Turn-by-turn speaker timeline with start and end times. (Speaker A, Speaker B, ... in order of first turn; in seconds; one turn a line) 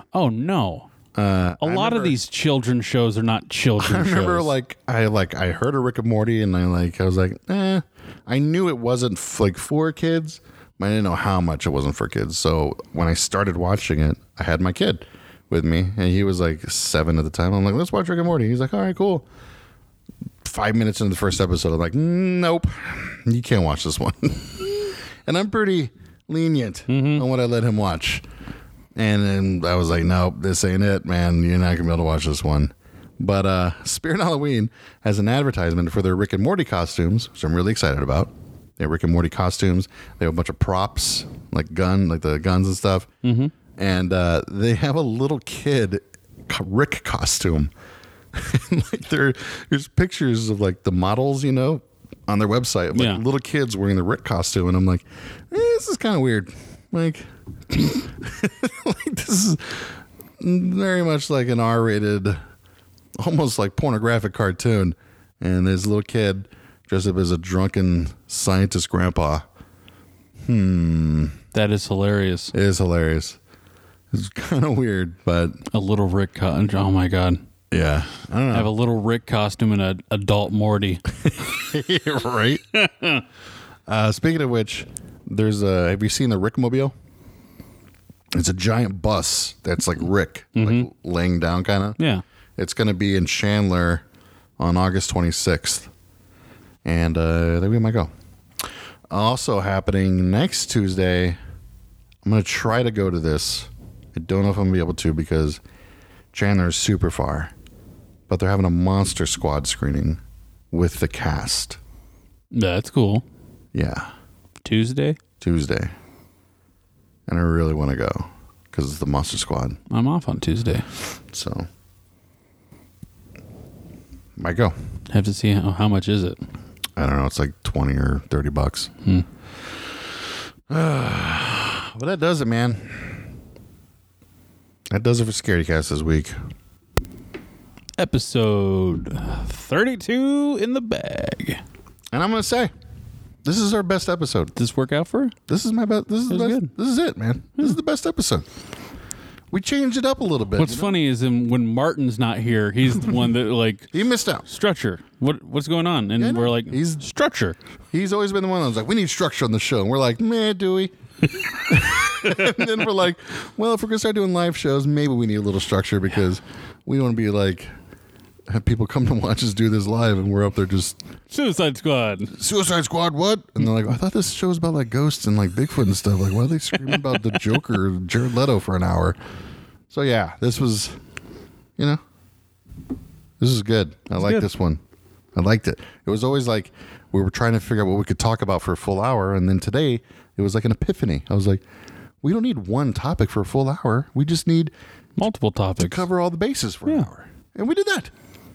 Speaker A: 0.1-0.9
Speaker B: 1.1-2.2
Speaker A: 1.6-4.5
Speaker B: 3.8-19.3
Speaker B: 20.4-28.2
Speaker A: 26.9-27.2
Speaker B: 29.0-43.1
Speaker A: 43.2-43.5
Speaker B: 43.8-47.7
Speaker B: 48.3-62.4
Speaker A: 52.9-53.2
Speaker B: 63.2-69.5
Speaker B: 70.4-71.4
Speaker A: 71.5-72.5
Speaker B: 72.5-73.4
Speaker B: 74.1-75.6
Speaker A: 75.7-77.4
Speaker B: 77.7-78.7
Speaker A: 78.5-81.1
Speaker B: 81.2-82.7
Speaker A: 82.8-83.2
Speaker B: 83.9-86.9
Speaker B: 88.3-92.0
Speaker A: 90.6-90.9
Speaker A: 92.0-92.2
Speaker B: 92.6-94.0
Speaker B: 94.6-95.9
Speaker B: 96.8-98.1
Speaker B: 99.1-101.4
Speaker B: 102.2-105.6
Speaker B: 106.3-107.5
Speaker B: 108.3-110.2
Speaker B: 110.7-111.8
Speaker A: 112.5-113.2
Speaker B: 113.7-114.1
Speaker A: 114.6-115.2
Speaker B: 115.4-115.9
Speaker B: 117.3-119.8
Speaker A: 119.9-120.9
Speaker B: 121.3-121.7
Speaker B: 124.4-124.8
Speaker A: 125.1-126.4
Speaker B: 127.0-128.9
Speaker B: 130.7-133.2
Speaker B: 134.9-136.3
Speaker A: 138.0-141.6
Speaker B: 142.1-142.7
Speaker B: 143.4-144.5
Speaker A: 144.6-145.3
Speaker B: 145.5-148.5
Speaker A: 146.3-146.7
Speaker B: 149.5-150.9
Speaker A: 150.6-153.9
Speaker B: 153.9-154.4
Speaker A: 154.5-157.6
Speaker B: 156.2-157.0
Speaker B: 157.9-160.9
Speaker B: 161.5-167.7
Speaker B: 168.5-171.0
Speaker A: 171.3-172.4
Speaker B: 172.3-179.2
Speaker B: 179.9-181.0
Speaker B: 183.4-184.8
Speaker B: 185.3-191.6
Speaker B: 192.2-194.7
Speaker A: 195.2-196.1
Speaker B: 195.8-198.1